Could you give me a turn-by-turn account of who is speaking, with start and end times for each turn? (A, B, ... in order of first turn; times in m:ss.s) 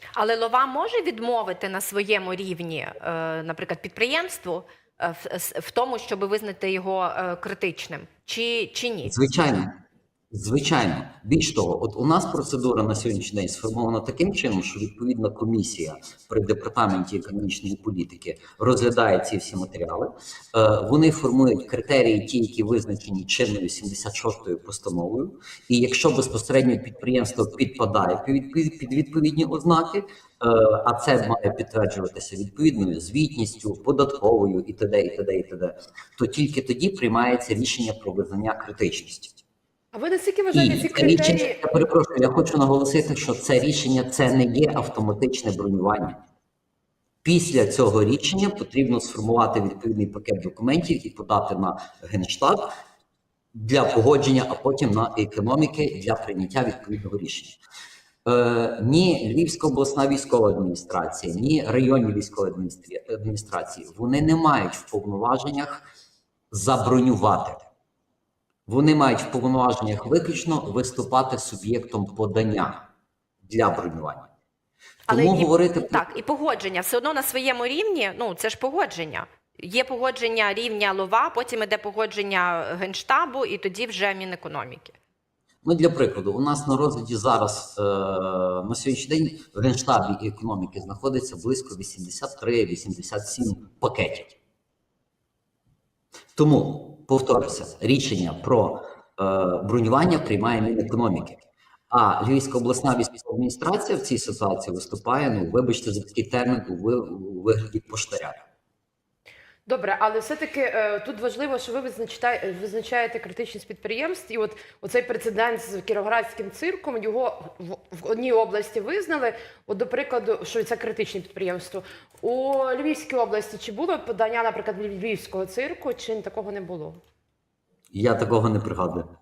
0:00.2-0:09.2 A
0:09.0-0:09.8 B
0:10.3-0:39.4 B
0:39.9-0:41.6 C
0:40.5-0:46.2 B
0:47.2-0:52.7 B
0:53.5-0:57.6 B
0:58.2-1:05.9 B
1:06.5-1:07.7 B
1:08.7-1:12.8 B
1:13.4-1:14.3 B
1:15.1-1:25.0 A
1:15.1-1:16.0 B
1:25.6-1:34.4 B
1:36.3-1:48.4 B
1:49.7-2:07.0 C
2:07.9-2:09.1 B